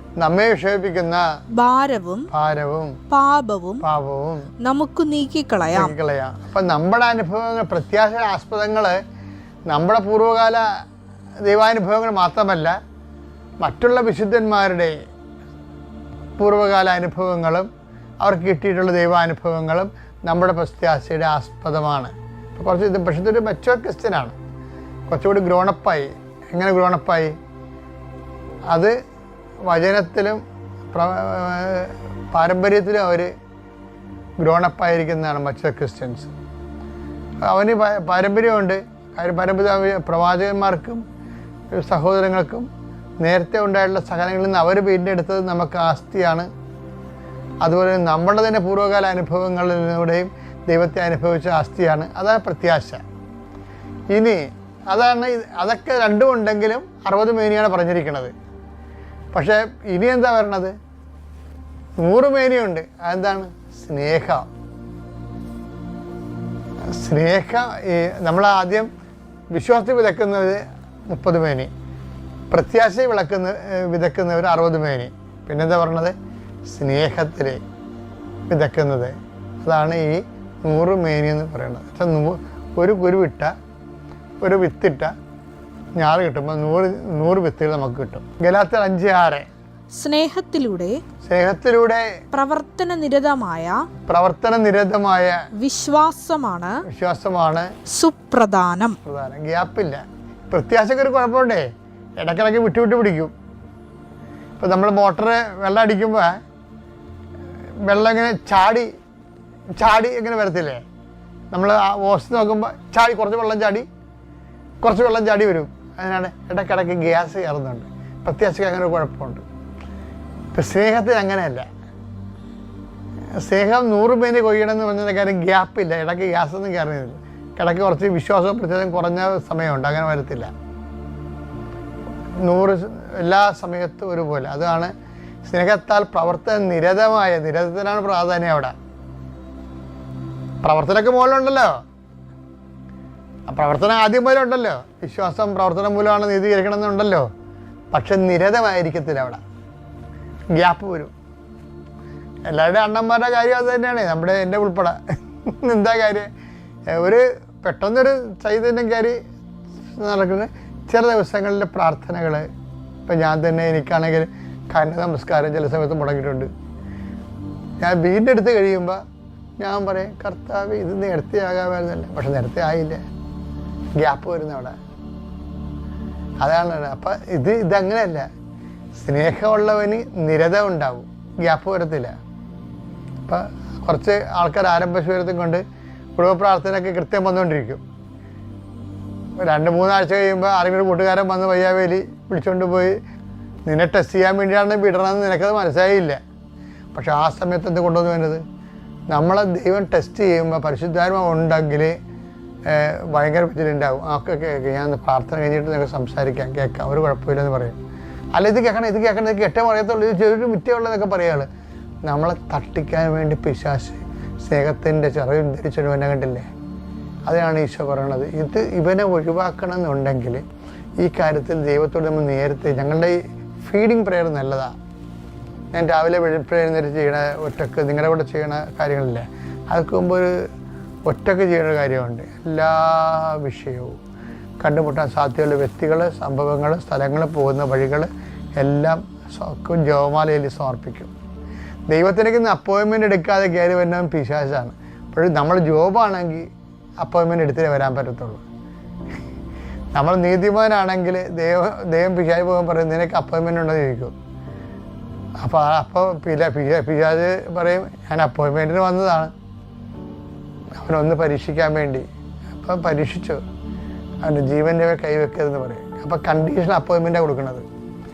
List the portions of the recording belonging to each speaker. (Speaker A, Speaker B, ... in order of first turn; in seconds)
Speaker A: 0.2-1.2, 2.3-3.0, 3.8-4.5, 5.7-9.0, 9.7-10.6, 11.4-12.7, 13.6-14.9, 16.4-17.7, 18.2-24.4, 25.1-27.3, 29.7-30.4, 30.9-33.3, 34.4-36.3, 37.5-41.0, 41.8-42.7, 43.2-46.5, 47.6-53.0, 54.1-54.4, 54.9-58.3, 59.3-60.7, 62.0-64.5, 67.0-68.9, 69.5-71.7, 72.5-76.2, 76.7-77.6, 78.5-83.5, 84.4-85.1, 86.0-89.5, 91.2-92.0, 94.1-95.3, 96.9-97.7, 99.0-101.7, 102.2-103.3, 104.6-106.4, 107.9-108.9, 109.8-110.8, 111.5-113.9, 114.8-119.4, 120.5-121.7, 123.5-130.5, 132.4-134.9, 135.5-138.8, 140.6-141.8, 143.5-147.3, 147.9-149.4, 150.6-151.1, 152.5-155.0, 155.6-156.3, 157.0-159.2, 160.0-162.5, 163.1-166.5, 167.8-169.0, 169.6-173.0, 174.0-174.8, 176.4-178.3, 179.0-182.1, 183.3-185.6, 186.2-187.8, 189.4-193.0, 193.7-196.2, 196.9-198.4, 199.1-201.9, 202.7-207.8, 208.4-211.5, 212.1-216.5, 217.3-220.4, 221.0-224.7, 225.7-230.3, 231.1-234.0, 234.6-238.1, 238.6-241.1, 241.9-246.5, 247.0-248.4, 249.9-254.1, 255.4-259.3, 260.8-262.0, 262.6-263.4, 264.2-267.6
Speaker B: 1.6-2.3, 3.1-3.8, 4.6-6.0, 90.0-91.0, 92.3-93.8, 95.6-96.7, 98.0-99.0